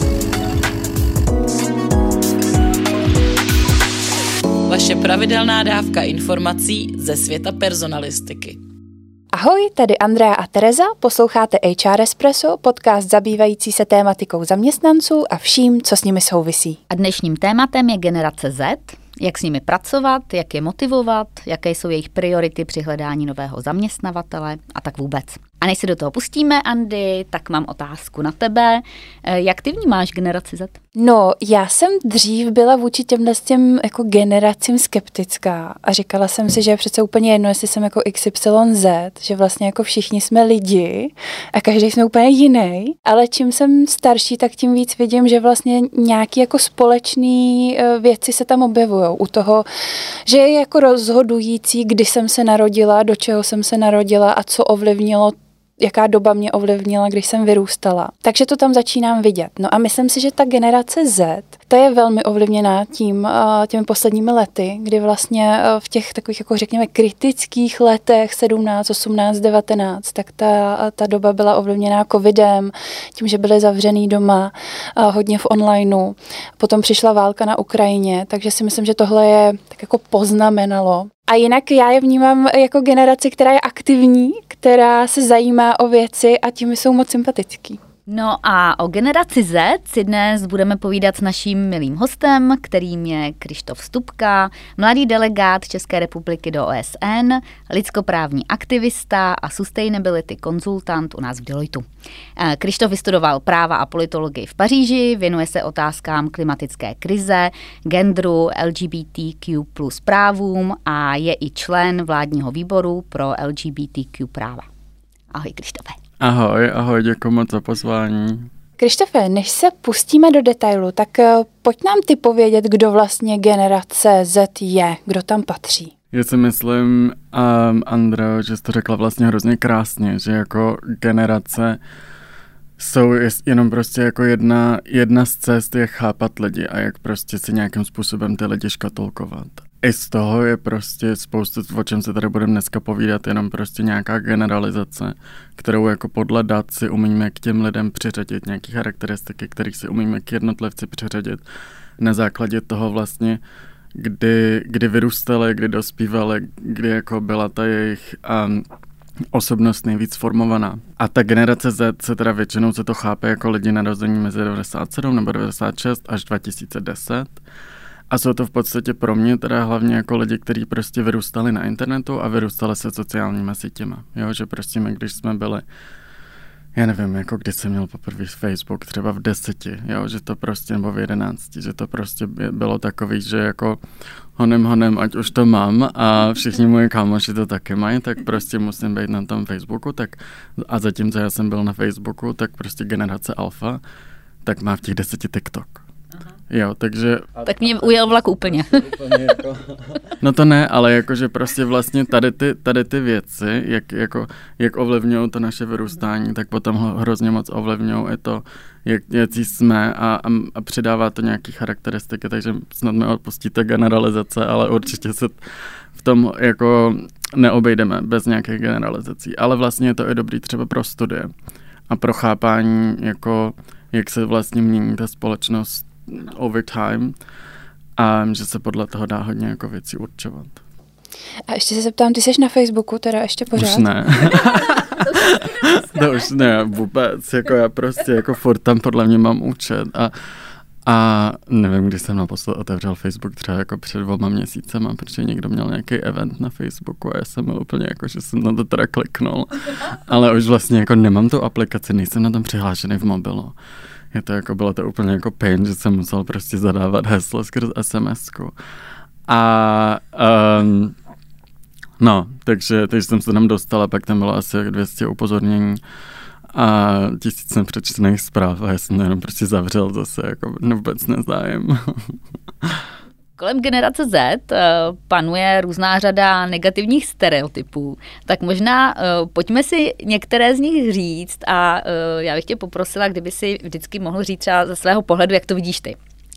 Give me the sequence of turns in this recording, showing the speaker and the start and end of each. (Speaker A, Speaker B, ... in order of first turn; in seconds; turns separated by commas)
Speaker A: 4.6-8.6, Speaker B: 9.3-16.8, Speaker C: 16.9-30.8, Speaker B: 30.9-49.7, Speaker B: 50.2-87.8, Speaker C: 88.1-101.8, Speaker C: 102.4-114.7, Speaker C: 115.3-116.0, Speaker D: 116.2-118.5, Speaker B: 118.8-125.9, Speaker D: 126.1-131.8, Speaker D: 132.8-151.4, Speaker D: 152.0-153.4, Speaker D: 153.9-158.7, Speaker D: 159.3-167.4, Speaker D: 168.1-175.6, Speaker D: 176.7-183.8, Speaker D: 184.3-193.8, Speaker D: 194.4-195.8, Speaker D: 196.5-197.4, Speaker C: 197.4-199.3, Speaker D: 200.2-215.3, Speaker D: 215.9-221.3, Speaker D: 221.9-227.1, Speaker D: 228.0-230.6, Speaker B: 231.5-233.8, Speaker D: 233.5-240.1, Speaker D: 240.8-253.5, Speaker D: 254.1-258.5, Speaker D: 259.3-260.9, Speaker D: 262.0-265.8, Speaker D: 266.5-272.8, Speaker C: 273.4-286.0